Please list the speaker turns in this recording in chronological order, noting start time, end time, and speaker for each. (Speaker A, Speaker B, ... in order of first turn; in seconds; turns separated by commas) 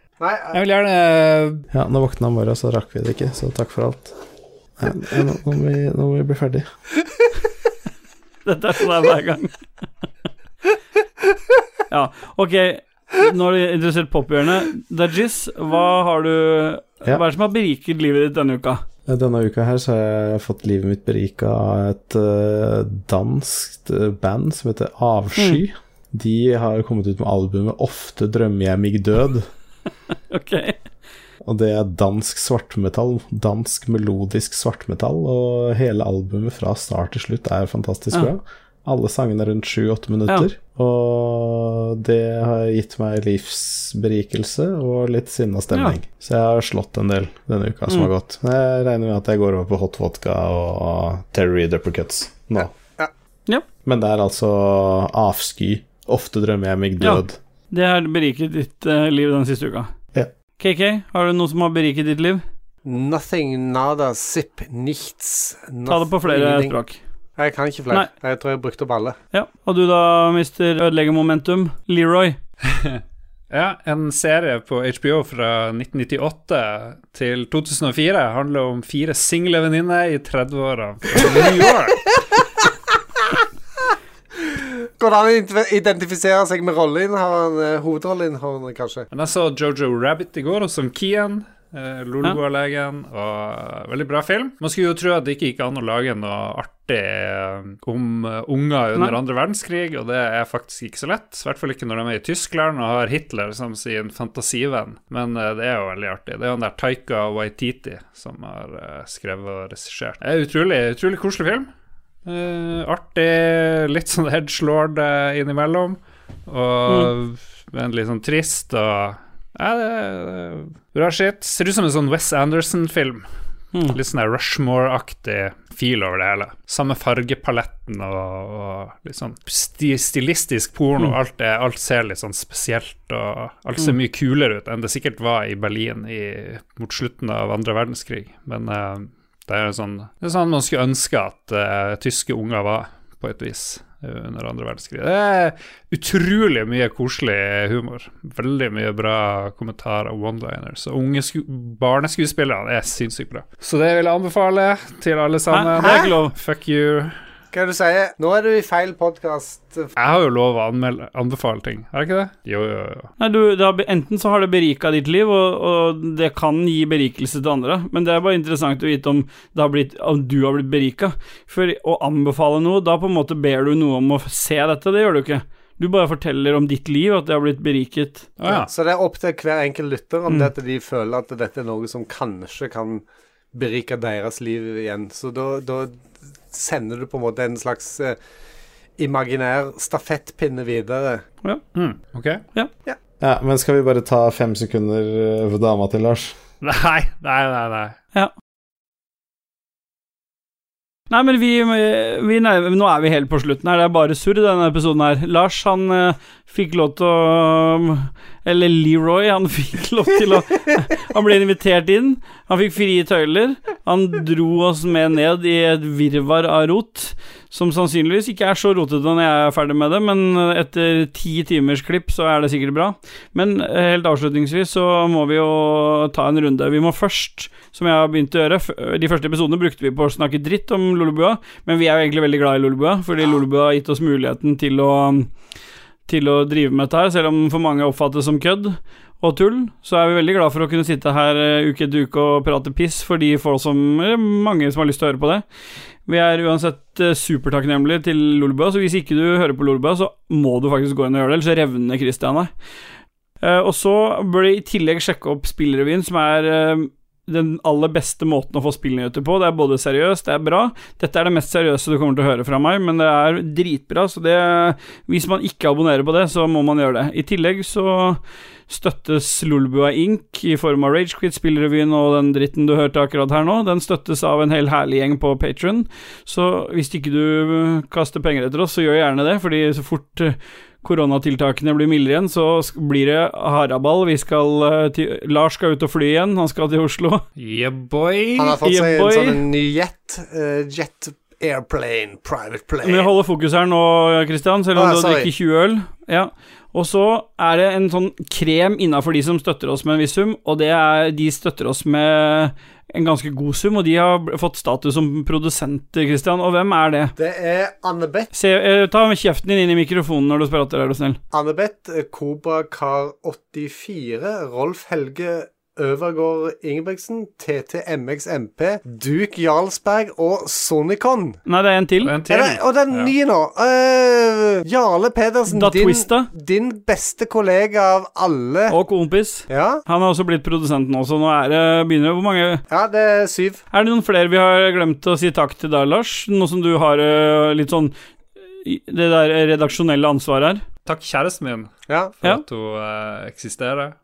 Speaker A: 0.2-0.6, Speaker B: 0.5-1.6, Speaker C: 1.7-4.1, Speaker C: 4.8-6.7, Speaker D: 8.4-9.6, Speaker D: 11.9-18.8, Speaker C: 19.1-29.5, Speaker D: 25.4-25.6, Speaker D: 30.3-30.8, Speaker C: 31.4-52.7, Speaker D: 45.7-46.0, Speaker A: 52.6-53.1, Speaker C: 53.8-57.4, Speaker D: 57.0-59.9, Speaker D: 60.6-62.4, Speaker A: 62.8-66.8, Speaker D: 65.9-67.0, Speaker A: 67.4-69.2, Speaker D: 69.3-72.4, Speaker B: 72.7-82.1, Speaker A: 81.2-81.5, Speaker A: 82.1-82.6, Speaker A: 84.5-89.0, Speaker B: 89.1-111.7, Speaker B: 112.2-123.2, Speaker D: 116.9-117.1, Speaker D: 123.7-124.0, Speaker B: 123.9-157.1, Speaker D: 155.5-156.3, Speaker A: 155.8-156.1, Speaker A: 157.5-159.9, Speaker B: 160.0-163.1, Speaker D: 163.2-178.3, Speaker B: 178.4-178.7, Speaker A: 178.4-188.2, Speaker A: 189.0-191.2, Speaker B: 191.7-192.4, Speaker C: 193.2-196.3, Speaker B: 196.6-198.0, Speaker D: 201.1-235.3, Speaker D: 236.1-245.4, Speaker D: 246.1-252.5, Speaker D: 253.4-287.2, Speaker B: 287.4-288.6, Speaker A: 288.4-293.1, Speaker D: 288.6-289.4, Speaker D: 292.8-307.1, Speaker A: 294.7-295.3, Speaker A: 307.2-308.3, Speaker D: 308.3-311.2, Speaker A: 311.3-321.4, Speaker D: 321.4-322.1, Speaker B: 322.0-323.1, Speaker A: 322.3-328.8, Speaker D: 325.5-326.3, Speaker D: 328.7-332.6, Speaker A: 329.5-329.8, Speaker A: 332.7-333.6, Speaker D: 333.7-337.9, Speaker D: 338.6-340.6, Speaker B: 340.8-343.9